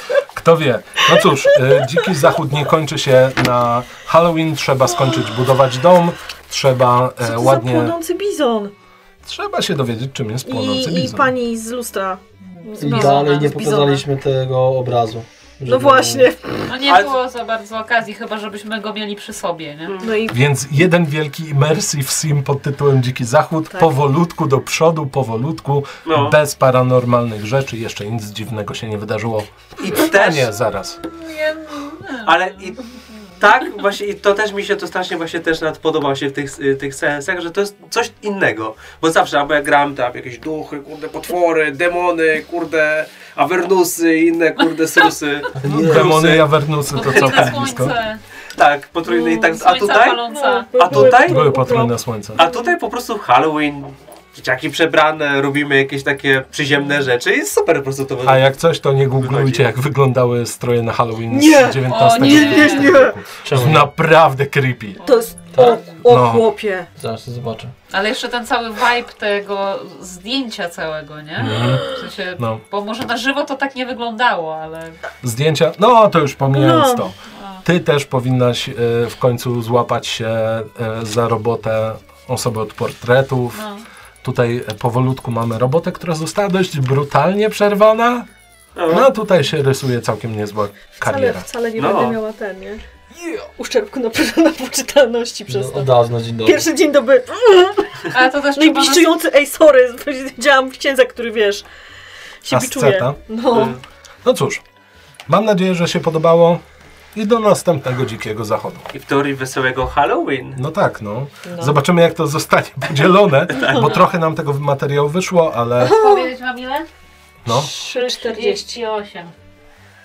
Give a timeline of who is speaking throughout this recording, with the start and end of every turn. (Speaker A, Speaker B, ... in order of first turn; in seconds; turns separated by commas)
Speaker A: 0.3-8.0, Speaker B: 1.2-1.8, Speaker B: 7.2-8.7, Speaker A: 9.2-11.3, Speaker B: 10.4-14.1, Speaker C: 12.6-13.4, Speaker D: 12.8-16.3, Speaker B: 15.6-16.7, Speaker C: 16.7-19.9, Speaker E: 16.9-17.1, Speaker E: 19.9-20.2, Speaker B: 20.0-20.4, Speaker A: 20.3-31.0, Speaker E: 26.1-26.4, Speaker E: 29.8-30.5, Speaker C: 31.1-32.6, Speaker E: 32.2-32.8, Speaker E: 33.4-47.6, Speaker D: 45.6-46.2, Speaker A: 45.6-48.0, Speaker C: 46.9-48.2, Speaker E: 48.5-50.2, Speaker B: 49.0-49.5, Speaker C: 49.4-50.7, Speaker B: 50.2-52.7, Speaker E: 50.8-51.8, Speaker A: 50.9-52.4, Speaker E: 52.3-58.5, Speaker A: 58.2-65.0, Speaker E: 59.2-59.7, Speaker B: 61.3-63.2, Speaker C: 61.9-63.0, Speaker D: 63.4-63.9, Speaker C: 65.0-66.0, Speaker B: 65.0-66.9, Speaker D: 65.5-65.8, Speaker A: 66.0-66.5, Speaker D: 67.0-67.7, Speaker C: 67.9-75.0, Speaker A: 71.4-71.8, Speaker A: 75.2-83.6, Speaker B: 76.5-77.1, Speaker C: 77.3-77.6, Speaker C: 83.5-83.8, Speaker A: 84.2-88.3, Speaker E: 88.8-89.1, Speaker A: 88.9-91.5, Speaker B: 91.0-92.8, Speaker E: 91.8-92.2, Speaker B: 93.6-101.6, Speaker D: 95.5-96.7, Speaker C: 98.1-99.2, Speaker B: 102.4-103.8, Speaker A: 102.5-103.2, Speaker E: 103.5-103.8, Speaker A: 104.2-104.6, Speaker A: 105.3-106.6, Speaker A: 107.1-108.9, Speaker E: 108.9-110.6, Speaker A: 110.5-116.0, Speaker B: 111.5-111.8, Speaker C: 115.8-116.9, Speaker B: 115.8-116.3, Speaker A: 117.4-117.7, Speaker B: 117.5-118.6, Speaker C: 117.8-119.3